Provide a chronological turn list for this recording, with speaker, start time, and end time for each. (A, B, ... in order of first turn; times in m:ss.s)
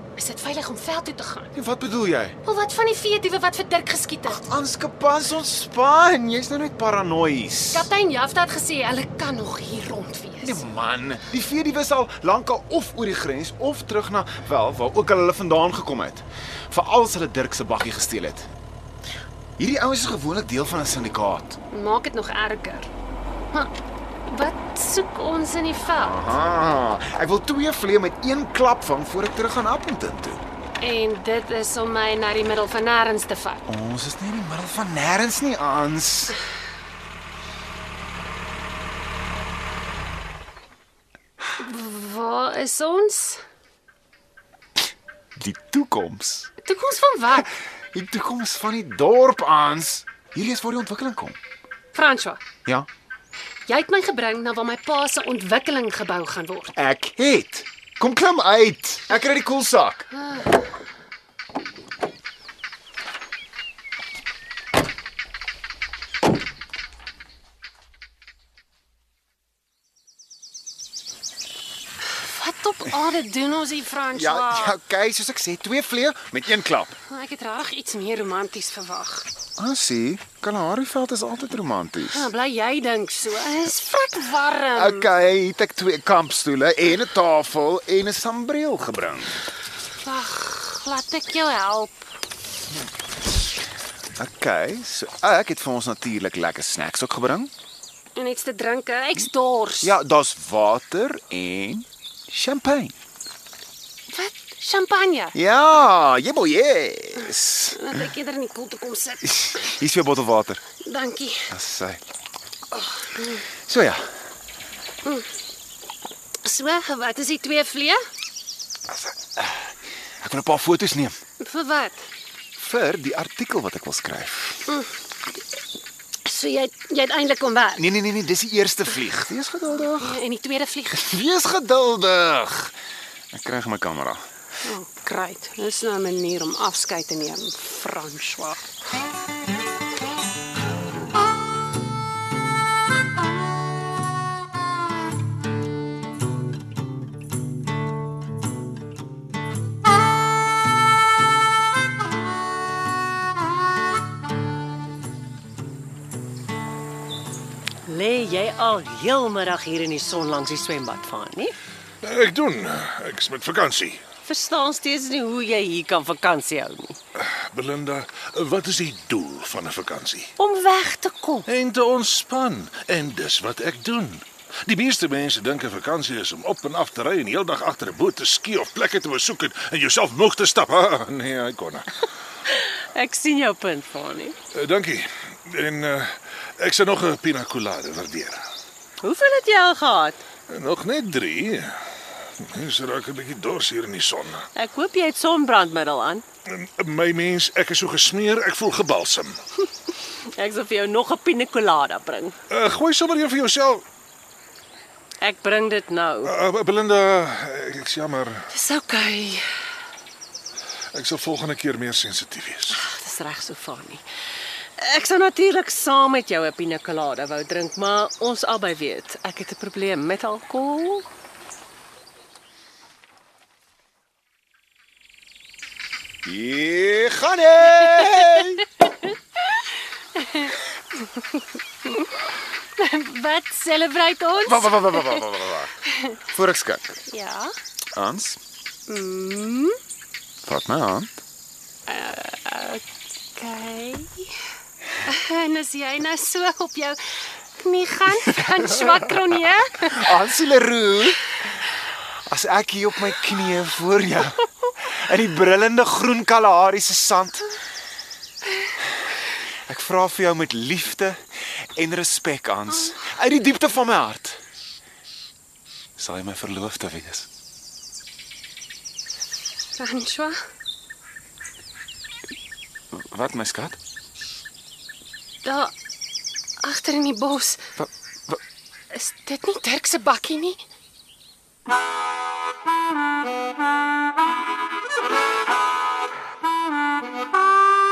0:00.2-0:01.5 A
0:01.5-0:02.4 B
0:02.4-0:04.4 A
0:04.3-0:07.9 B
0:07.7-0:10.6 A
0:10.4-0:18.5 B
0:19.6-0:21.6 B
0:21.7-0:22.9 A
0:24.3-0:26.3 A
0:25.9-0:30.4 B
0:30.8-0:33.6 A
0:33.7-0:36.4 B
0:41.6-0:43.4 A
0:45.4-0:46.5 B
0:46.6-0:47.5 A
0:47.4-0:51.4 B
0:51.9-0:52.4 A
0:53.6-0:56.7 A
0:56.8-1:00.1 B
1:00.2-1:00.6 A
1:12.1-1:14.7 A
1:14.1-1:17.0 B
1:17.1-1:19.3 A
1:19.6-1:22.3 B
1:22.1-1:25.1 A
1:24.7-1:29.5 B
1:30.0-1:32.0 A
1:34.2-1:37.5 B
1:38.1-1:39.9 A
1:39.8-1:42.9 B
1:44.1-1:45.3 A
1:45.3-1:47.9 B
1:47.7-1:49.2 A
1:49.2-1:50.6 B
1:50.8-1:51.5 A
1:51.5-1:52.0 B
1:52.7-1:53.4 A
1:53.6-1:54.0 B
1:56.4-1:58.0 A
1:58.9-1:59.6 B
2:00.2-2:01.1 B
2:01.4-2:02.0 A
2:02.6-2:04.7 B
2:06.2-2:07.8 A
2:07.8-2:10.2 B
2:09.8-2:11.0 A
2:10.9-2:12.7 B
2:13.3-2:14.2 B
2:14.6-2:18.7 A
2:37.9-2:41.6 C
2:42.0-2:44.0 D
2:44.2-2:47.0 C
2:47.2-2:50.3 D
2:50.4-2:51.4 C
2:51.4-3:01.9 D
3:02.9-3:04.3 C
3:04.5-3:08.4 D
3:09.0-3:10.2 C
3:10.5-3:11.7 D
3:12.4-3:14.4 D
3:14.6-3:16.2 C
3:16.5-3:19.4 D
3:20.3-3:22.4 C
3:22.5-3:23.8 D
3:25.2-3:26.3 C
3:26.2-3:28.5 D
3:28.5-3:29.5 C
3:30.9-3:32.8 D
3:32.7-3:34.0 C
3:34.8-3:41.0 C
3:46.2-3:48.7 B
3:50.1-3:52.2 A
3:52.8-3:55.2 A
3:54.4-3:57.0 B
3:57.1-3:57.5 A
3:57.9-3:58.4 B
3:58.9-3:59.8 A
4:00.4-4:01.1 B
4:01.9-4:02.8 A
4:03.3-4:04.3 A
4:05.0-4:10.2 A
4:09.8-4:11.4 B
4:12.3-4:17.5 B
4:19.7-4:21.2 B
4:21.7-4:24.4 B
4:26.0-4:27.3 B
4:29.7-4:30.3 A
4:32.9-4:33.8 B
4:35.4-4:35.7 A
4:36.6-4:37.6 A
4:37.8-4:38.4 B
4:38.9-4:40.6 A